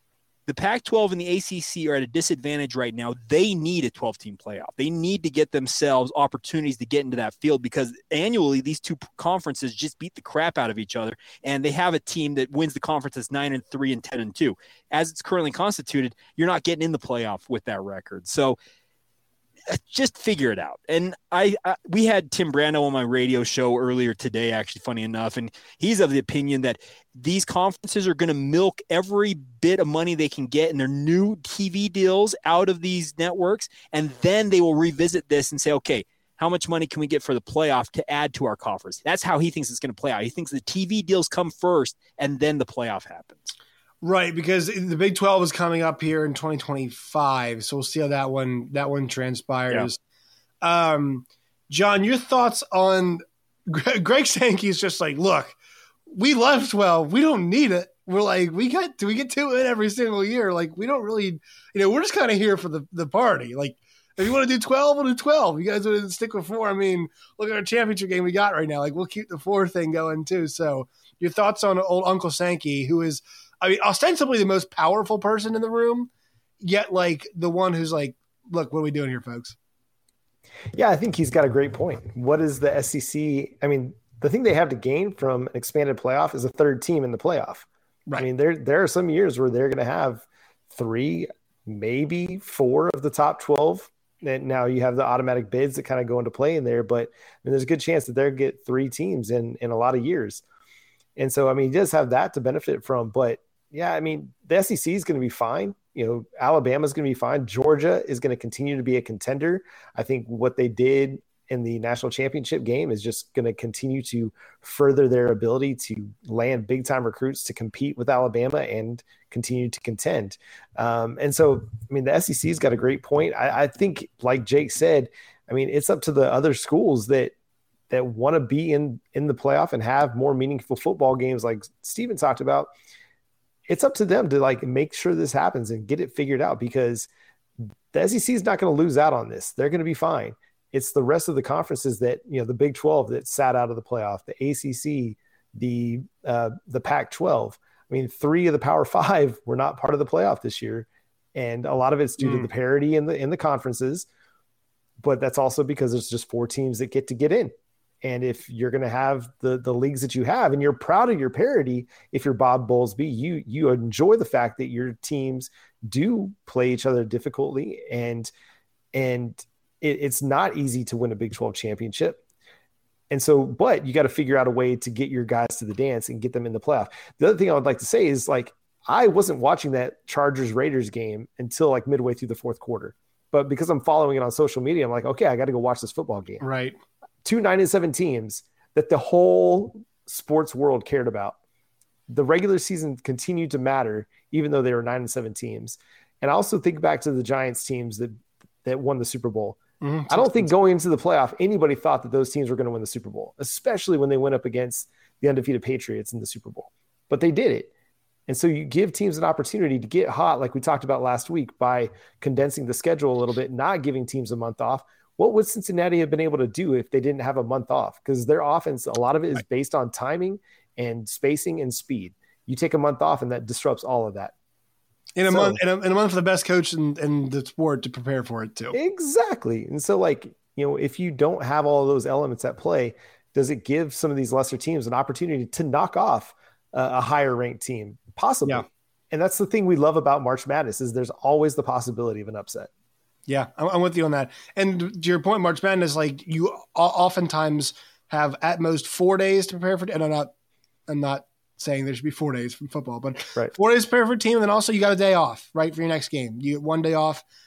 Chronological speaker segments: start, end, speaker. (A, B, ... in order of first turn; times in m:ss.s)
0:00.5-0:18.6 A
0:19.7-0:43.5 A
0:44.0-0:50.0 B
0:50.6-0:55.6 B
0:56.1-1:16.1 B
1:16.6-1:19.6 B
1:20.7-1:40.4 C
1:41.2-2:07.3 C
2:07.9-2:12.7 C
2:13.7-2:17.1 C
2:17.9-2:34.1 C
2:35.0-2:48.3 C
2:48.9-2:52.2 C
2:53.1-3:06.4 C
3:06.4-3:06.8 B
3:07.2-3:11.4 C
3:12.1-3:18.1 C
3:18.6-3:27.7 C
3:19.8-3:20.5 B
3:28.3-3:44.3 C
3:45.2-3:48.8 B
3:45.3-3:45.6 C
3:48.7-4:02.7 C
4:03.3-4:10.3 B
4:10.9-4:17.2 B